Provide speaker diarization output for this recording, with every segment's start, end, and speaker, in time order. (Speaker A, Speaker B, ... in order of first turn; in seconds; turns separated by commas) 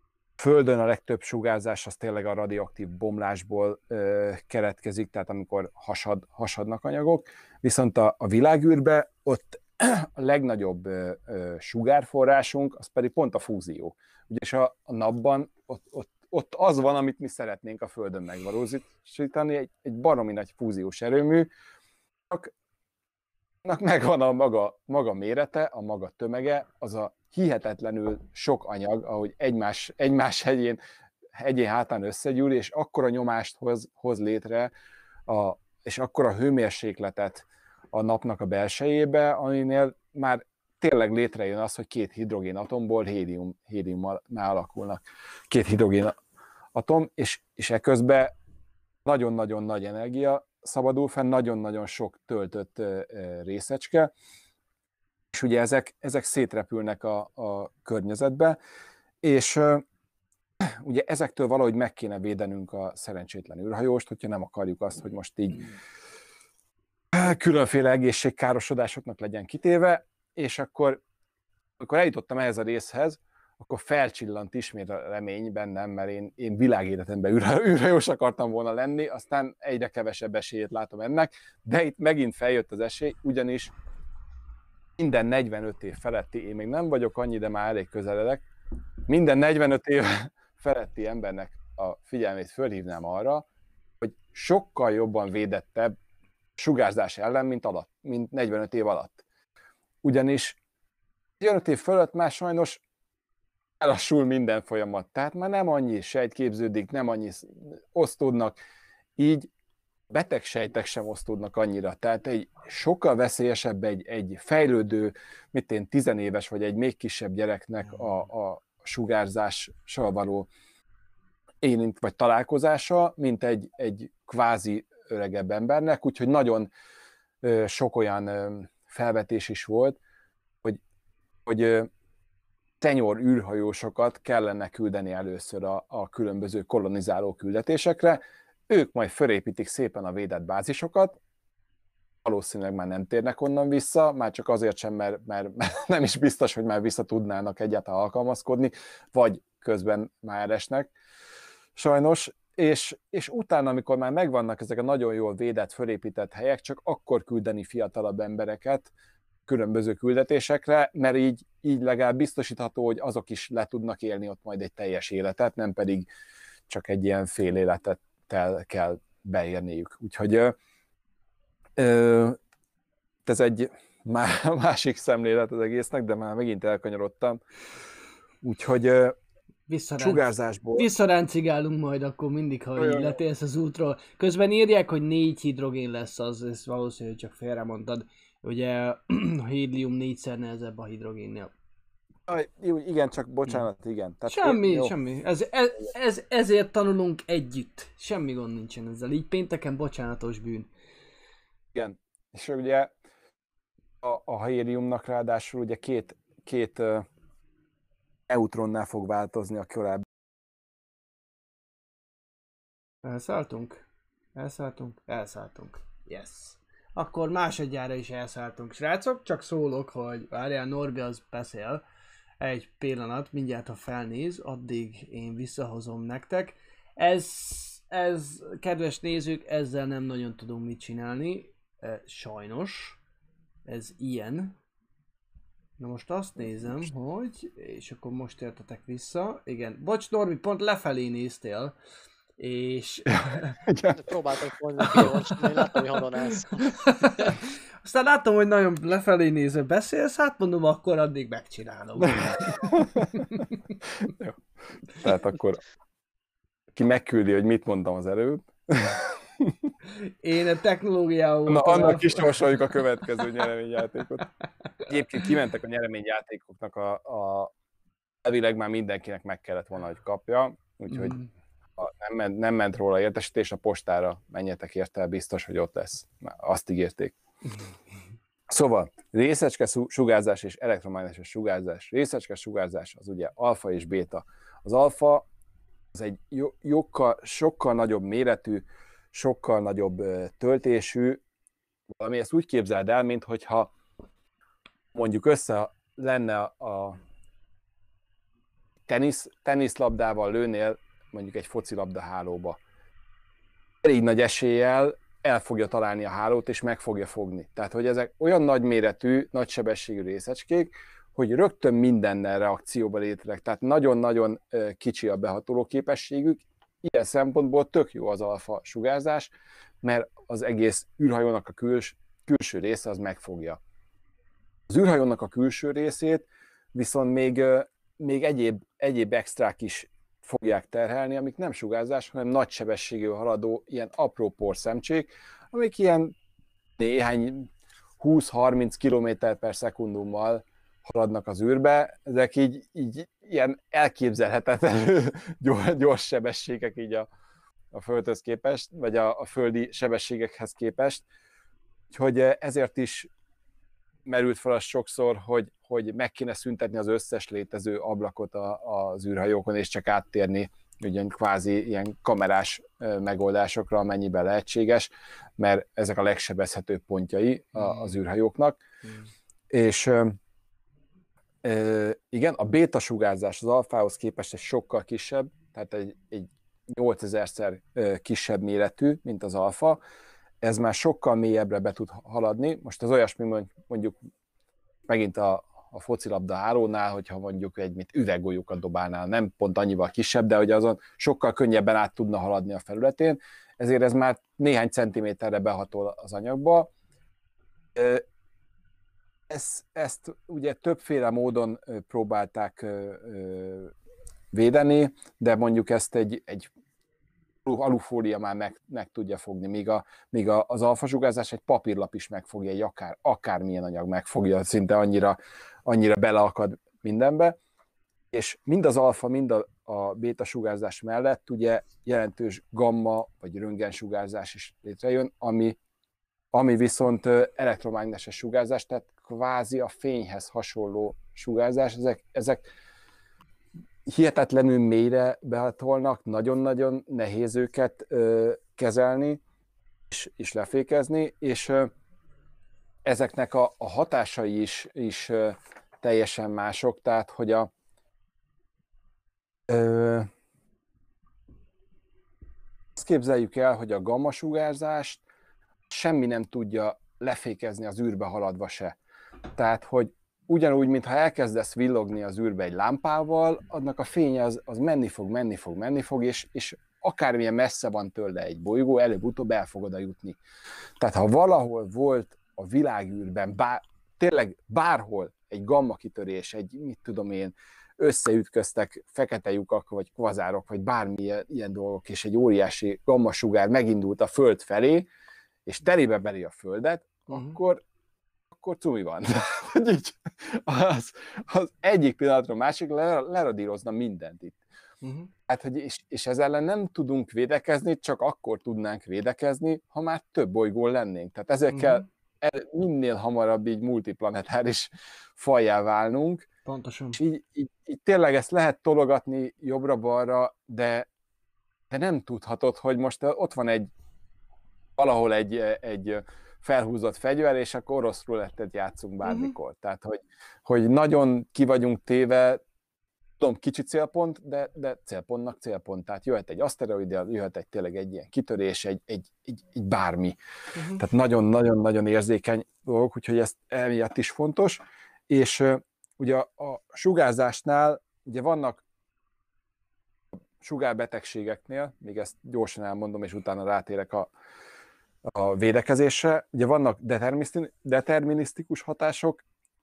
Speaker A: 0.4-21.5, Speaker A: 23.6-30.8, Speaker A: 31.3-34.7, Speaker A: 35.3-46.1, Speaker A: 46.7-48.3, Speaker A: 49.0-54.1, Speaker A: 55.3-58.6, Speaker A: 59.2-59.9, Speaker A: 60.6-65.7, Speaker A: 67.1-71.0, Speaker A: 71.8-83.7, Speaker A: 85.0-88.5, Speaker A: 89.1-93.5, Speaker A: 94.0-96.0, Speaker A: 96.6-99.2, Speaker A: 100.0-100.6, Speaker A: 101.4-102.8, Speaker A: 103.8-108.6, Speaker A: 109.2-109.5, Speaker A: 110.1-120.5, Speaker A: 121.6-126.7, Speaker A: 127.4-130.0, Speaker A: 131.5-131.9, Speaker A: 132.8-141.2, Speaker A: 142.2-150.9, Speaker A: 151.8-158.9, Speaker A: 159.5-166.1, Speaker A: 166.7-170.6, Speaker A: 171.8-172.4, Speaker A: 173.2-177.4, Speaker A: 178.4-179.2, Speaker B: 179.7-180.2, Speaker A: 180.0-180.9, Speaker B: 180.8-191.5, Speaker A: 182.8-183.2, Speaker A: 192.3-194.9, Speaker B: 194.3-200.7, Speaker A: 201.7-202.9, Speaker A: 204.0-207.1, Speaker A: 208.3-210.1, Speaker B: 213.0-213.8, Speaker B: 214.3-221.8, Speaker B: 222.4-233.0, Speaker B: 233.7-234.6, Speaker B: 235.8-241.8, Speaker B: 242.4-243.6, Speaker A: 243.1-244.2, Speaker C: 244.0-247.3, Speaker A: 244.8-245.5, Speaker B: 246.6-253.5, Speaker A: 252.0-253.3, Speaker A: 254.0-254.4, Speaker A: 254.9-255.6, Speaker A: 256.8-259.7, Speaker B: 260.0-262.6, Speaker A: 261.5-264.3, Speaker A: 264.9-267.5, Speaker A: 268.2-271.2, Speaker B: 270.9-271.3, Speaker A: 271.8-277.1, Speaker A: 278.5-285.3, Speaker A: 285.9-291.2, Speaker A: 291.9-293.7, Speaker A: 294.9-297.0, Speaker A: 298.9-302.6, Speaker A: 303.8-323.6, Speaker A: 324.7-336.1, Speaker A: 336.8-347.1, Speaker A: 347.7-351.1, Speaker A: 351.9-353.1, Speaker A: 354.1-368.6, Speaker B: 367.6-367.9, Speaker A: 369.5-370.2, Speaker A: 371.4-379.8, Speaker A: 380.4-384.0, Speaker A: 384.9-396.7, Speaker A: 397.8-398.0, Speaker A: 399.3-403.7, Speaker A: 404.3-406.5, Speaker A: 407.4-417.4, Speaker A: 418.1-425.6, Speaker A: 426.3-432.4, Speaker A: 433.9-439.2, Speaker A: 439.9-441.7, Speaker A: 442.9-447.5, Speaker A: 449.5-450.1, Speaker A: 452.8-455.0, Speaker A: 455.7-458.8, Speaker A: 459.4-470.2, Speaker A: 470.8-484.9, Speaker A: 485.5-487.6, Speaker B: 487.1-487.4, Speaker A: 488.3-494.4, Speaker B: 494.8-495.1, Speaker A: 495.3-506.3, Speaker B: 501.5-501.8, Speaker B: 506.5-507.0, Speaker A: 507.0-510.9, Speaker A: 511.7-513.7, Speaker A: 514.8-522.4, Speaker B: 519.0-519.4, Speaker A: 523.2-530.2, Speaker B: 530.5-530.8, Speaker A: 530.8-538.6, Speaker A: 540.4-544.1, Speaker A: 545.1-549.2